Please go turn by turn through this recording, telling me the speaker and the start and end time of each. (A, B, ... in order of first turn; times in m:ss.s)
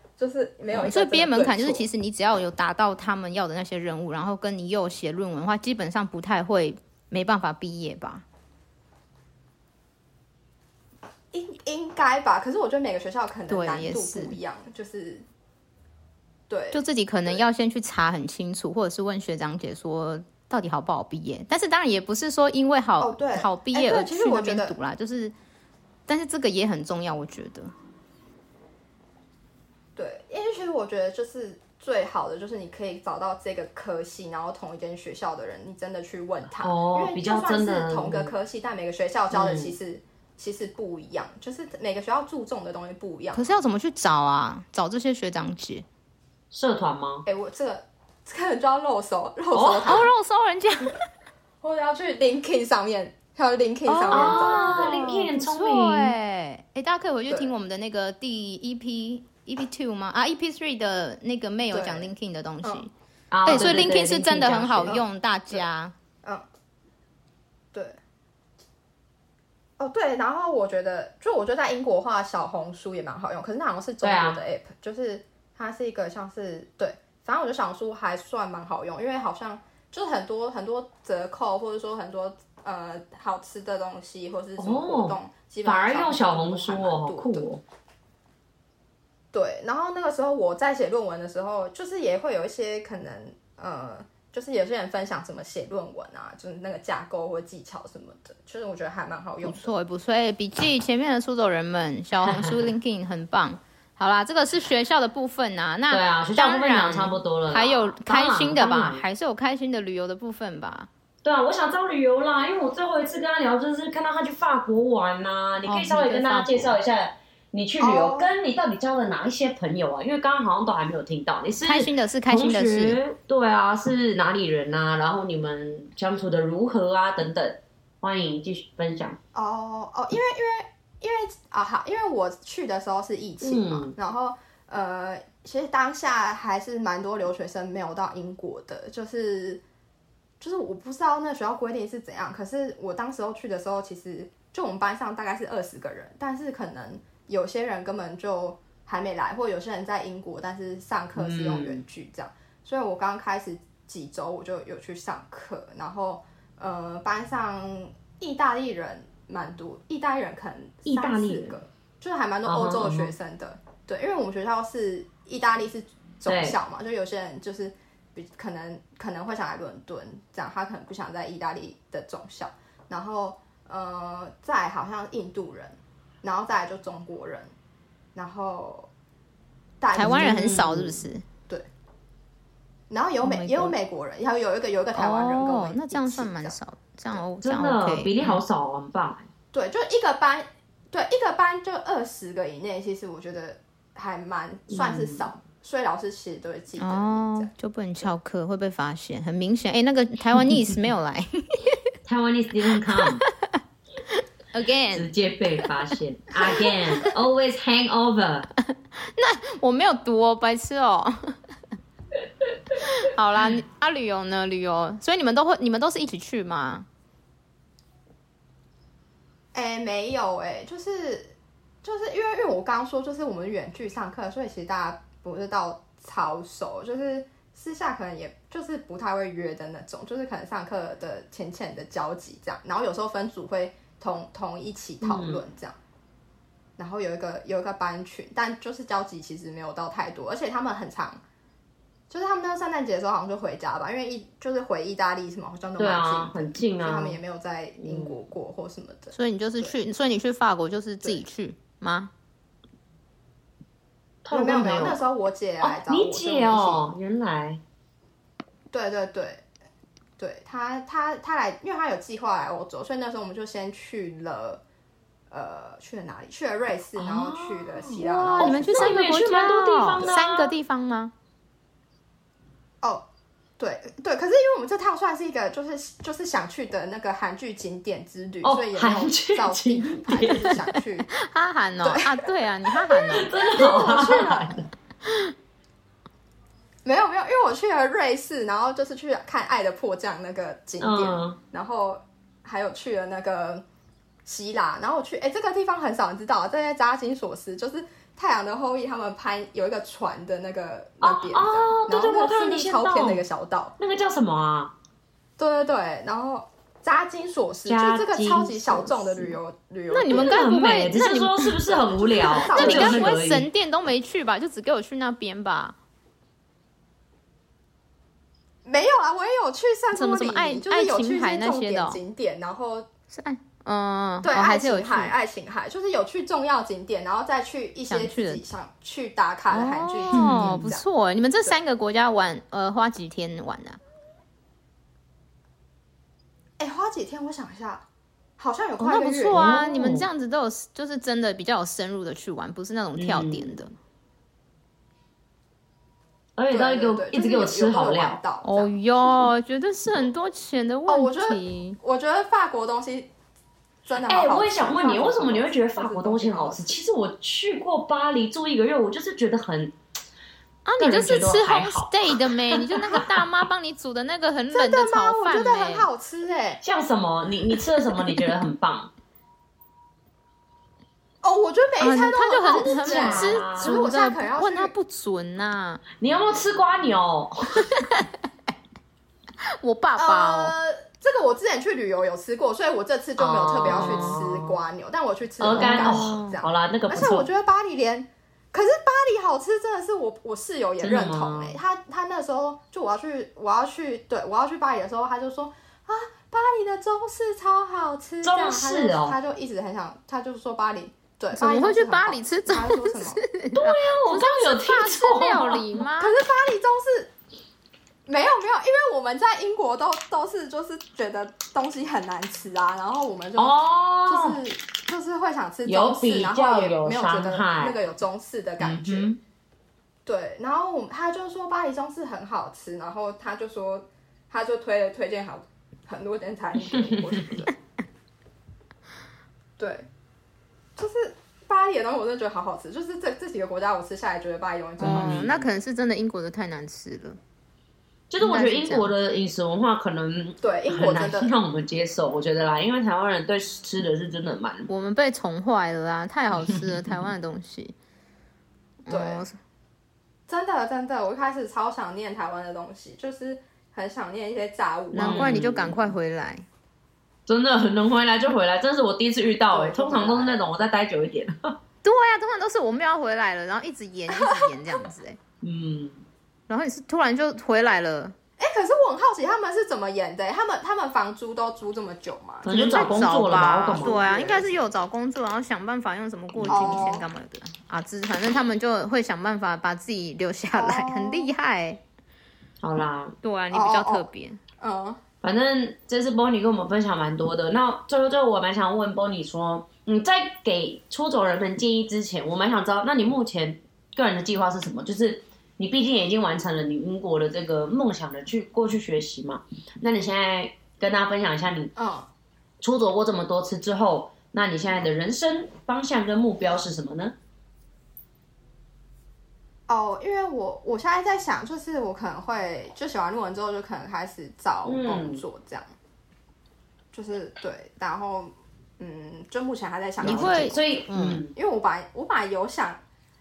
0:00.2-0:01.9 A
0:00.7-0:08.2 B
0:11.3-0:15.3 A
0:13.5-0:14.4 B
0:16.5-0:17.4 A
0:16.7-0:25.3 B
0:23.0-0:24.8 A
0:26.1-0:27.7 B
0:30.0-0:43.5 A
0:36.6-0:38.3 C
0:39.3-0:39.8 C
0:43.3-0:45.8 B
0:46.5-0:47.2 C
0:47.3-0:50.1 A
0:49.5-0:50.0 C
0:49.8-0:51.0 B
0:51.6-0:55.1 A
0:53.9-1:02.9 B
0:54.1-0:56.2 C
1:01.7-1:02.1 A
1:03.3-1:05.0 C
1:03.4-1:05.9 B
1:03.5-1:03.9 A
1:04.8-1:05.6 A
1:09.8-1:27.5 A
1:14.0-1:14.4 C
1:24.6-1:27.6 C
1:29.3-1:39.7 A
1:39.4-1:50.9 B
1:42.2-1:42.7 C
1:45.9-1:49.0 C
1:51.2-2:09.2 C
1:55.6-1:56.8 B
1:57.8-1:58.4 A
2:01.6-2:03.0 B
2:09.3-2:19.6 A
2:13.4-2:13.9 C
2:20.4-2:57.5 A
2:31.2-2:31.8 C
2:40.8-2:41.6 C
2:42.4-2:43.1 C
2:46.3-2:46.6 C
2:58.2-2:58.9 A
2:59.8-3:00.6 A
2:59.9-3:01.2 B
3:00.0-3:01.0 C
3:02.9-3:06.6 A
3:03.2-3:03.8 B
3:05.0-3:08.4 B
3:07.4-3:09.3 C
3:09.5-3:17.5 A
3:14.7-3:15.3 C
3:16.8-3:21.8 B
3:22.0-3:23.2 C
3:22.9-3:23.6 B
3:24.5-3:25.1 B
3:24.9-3:28.5 C
3:26.4-3:27.1 B
3:28.7-3:31.4 B
3:32.8-3:36.9 B
3:39.5-3:55.8 A
3:55.0-3:55.4 C
3:56.8-4:01.2 A
4:02.1-4:09.8 A
4:05.8-4:07.2 C
4:07.8-4:08.2 C
4:09.1-4:12.1 B
4:14.2-4:15.0 C
4:14.3-4:16.9 A
4:15.6-4:17.6 C
4:18.7-4:19.4 A
4:20.2-4:24.6 A
4:25.3-4:29.0 A
4:27.0-4:30.6 C
4:28.0-4:31.1 B
4:33.6-4:41.1 A
4:38.4-4:40.6 C
4:41.1-4:43.5 B
4:41.8-4:42.3 A
4:43.0-4:44.6 A
4:43.1-4:44.6 C
4:45.1-4:45.3 B
4:46.8-4:53.6 A
4:50.8-4:51.4 C
4:54.2-5:03.8 A
5:01.0-5:03.2 C
5:03.8-5:04.7 C
5:05.4-5:10.4 A
5:07.7-5:09.4 C
5:09.9-5:11.6 B
5:10.1-5:13.5 C
5:11.7-5:13.2 A
5:12.2-5:15.8 B
5:18.6-5:22.9 A
5:19.9-5:22.0 B
5:23.1-5:25.1 B
5:24.2-5:30.8 A
5:27.9-5:28.4 B
5:29.5-5:33.8 B
5:30.1-5:30.6 C
5:36.6-5:37.9 A
5:38.4-5:39.5 A
5:38.8-5:43.7 B
5:39.3-5:40.1 C
5:43.0-5:43.5 C
5:46.4-5:48.2 C
5:46.5-5:48.8 A
5:48.4-5:51.8 B
5:50.9-5:53.1 A
5:53.8-5:56.7 A
5:54.0-5:59.8 C
6:00.6-6:05.9 B
6:00.8-6:03.3 C
6:04.5-6:06.6 A
6:06.6-6:08.9 C
6:11.2-6:14.7 A
6:11.8-6:15.8 B
6:12.6-6:13.8 C
6:16.0-6:17.6 C
6:17.6-6:18.1 B
6:19.6-6:20.5 B
6:20.0-6:43.2 A
6:23.2-6:24.6 C
6:25.4-6:27.3 C
6:25.5-6:26.4 B
6:30.8-6:31.6 C
6:38.2-6:39.2 C
6:41.3-6:46.2 B
6:43.5-6:45.8 C
6:46.0-6:47.1 A
6:48.1-6:59.1 A
6:53.4-6:54.4 C
6:55.7-6:57.8 C
6:58.6-6:59.2 C
7:00.1-7:07.5 A
7:06.7-7:07.4 C
7:09.6-7:09.9 A
7:10.8-7:15.3 A
7:14.8-7:15.5 C
7:14.8-7:17.2 B
7:18.1-7:24.7 C
7:18.2-7:18.9 B
7:20.4-7:21.3 A
7:24.7-7:27.8 B
7:26.4-7:26.9 C
7:28.9-7:29.4 B
7:28.9-7:29.2 A
7:30.3-7:35.3 A
7:34.9-7:35.9 C
7:35.0-7:36.4 B
7:37.3-7:41.6 C
7:39.5-7:40.5 A
7:41.8-7:45.2 B
7:44.1-7:44.8 A
7:45.4-7:46.0 C
7:46.5-7:48.2 B
7:48.4-7:53.1 A
7:52.4-7:54.0 C
7:52.5-8:01.8 B
7:53.6-7:54.5 A
7:56.4-7:56.8 C
7:56.5-7:57.1 A
8:00.6-8:01.3 A
8:02.6-8:03.2 C
8:03.2-8:04.4 B
8:03.5-8:05.0 A
8:05.2-8:21.7 C
8:21.8-8:22.1 A
8:22.6-8:27.2 C
8:29.7-8:35.7 A
8:34.7-8:35.2 C
8:36.9-8:40.7 A
8:40.0-8:41.2 B
8:40.0-8:41.3 C
8:41.3-8:42.8 A